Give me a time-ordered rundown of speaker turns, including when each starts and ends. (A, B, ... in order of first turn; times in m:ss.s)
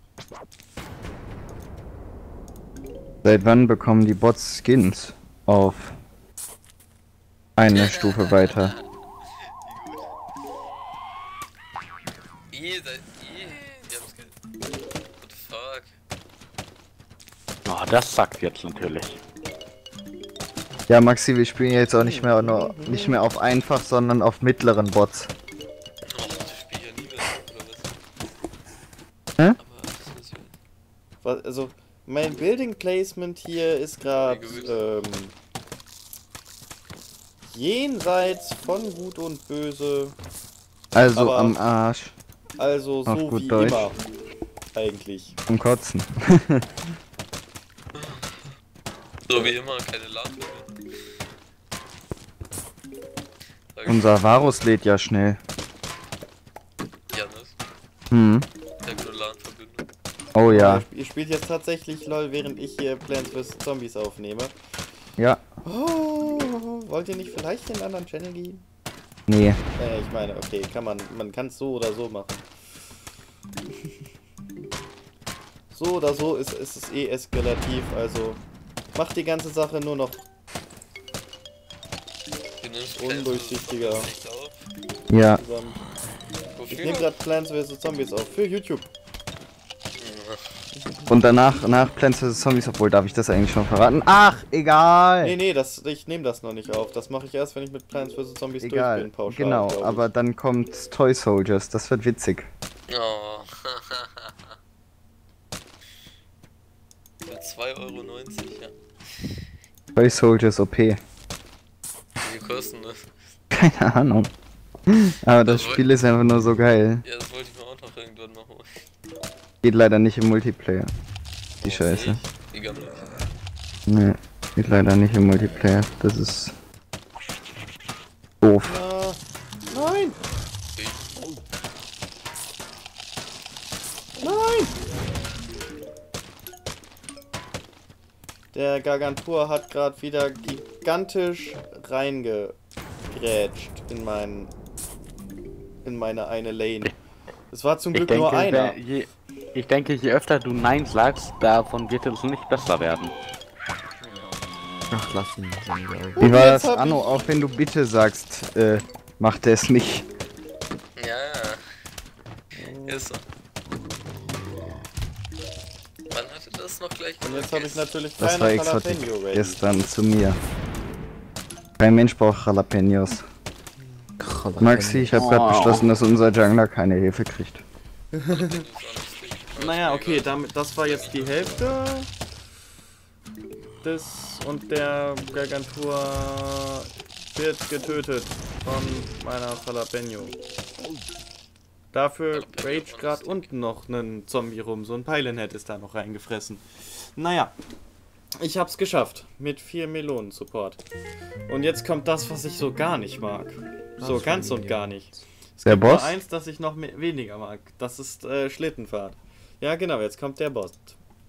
0:03.2-0:06.0 A
0:07.6-0:08.7 A
0:07.7-0:08.8 B
0:09.6-0:10.0 B
0:12.5-0:14.3 B
0:15.2-0:15.9 B
0:17.6-0:19.2 C
0:20.9-0:25.3 A
0:22.0-0:23.2 D
0:26.0-0:28.0 B
0:29.6-0:30.5 B
0:31.2-0:35.3 D
0:34.2-0:34.9 B
0:37.4-0:40.2 D
0:40.9-0:42.1 A
0:41.1-0:41.6 D
0:42.6-0:44.0 D
0:43.1-0:43.9 A
0:44.7-0:45.4 D
0:45.5-0:46.7 A
0:47.9-0:48.5 B
0:49.3-0:50.7 B
0:53.7-0:54.2 B
0:53.8-0:55.4 A
0:57.1-0:57.5 B
0:58.1-0:58.4 A
0:58.8-0:59.8 B
1:00.3-1:00.8 A
1:00.4-1:04.5 D
1:05.2-1:05.4 A
1:05.6-1:08.6 D
1:09.3-1:09.6 A
1:09.8-1:12.4 D
1:15.7-1:18.4 D
1:18.9-1:20.2 D
1:22.6-1:24.6 B
1:22.9-1:24.1 D
1:25.1-1:25.4 A
1:25.3-1:25.8 D
1:26.6-1:27.1 B
1:26.7-1:28.9 D
1:30.0-1:30.4 B
1:30.8-1:31.1 D
1:31.1-1:35.4 A
1:35.2-1:40.1 D
1:38.6-1:42.5 A
1:42.9-1:44.5 B
1:47.2-1:48.7 B
1:49.9-1:51.0 A
1:52.2-1:53.1 B
1:53.5-1:54.3 A
1:54.9-1:57.0 A
1:55.4-1:55.9 B
1:57.0-1:58.7 B
1:59.6-2:00.9 A
2:01.6-2:03.1 B
2:01.6-2:02.2 A
2:03.9-2:06.5 A
2:08.4-2:08.8 A
2:08.6-2:10.2 D
2:10.8-2:11.1 B
2:14.2-2:14.8 D
2:18.5-2:22.6 D
2:23.1-2:24.5 D
2:25.8-2:26.9 D
2:27.5-2:28.8 D
2:27.9-2:33.1 C
2:34.9-2:36.3 E
2:36.2-2:37.2 D
2:36.2-2:40.1 A
2:41.0-2:41.6 B
2:42.6-2:43.1 D
2:42.8-2:43.2 B
2:46.1-2:47.9 B
2:47.2-2:49.6 D
2:48.2-2:50.4 A
2:51.8-2:53.2 A
2:54.2-2:55.9 E
2:54.6-2:57.6 A
2:58.1-2:58.6 D
2:58.3-3:01.8 B
2:59.6-3:02.1 D
3:03.8-3:10.4 D
3:11.9-3:17.5 D
3:12.3-3:13.4 B
3:18.4-3:20.8 D
3:21.5-3:31.0 D
3:24.0-3:25.0 E
3:25.6-3:26.1 A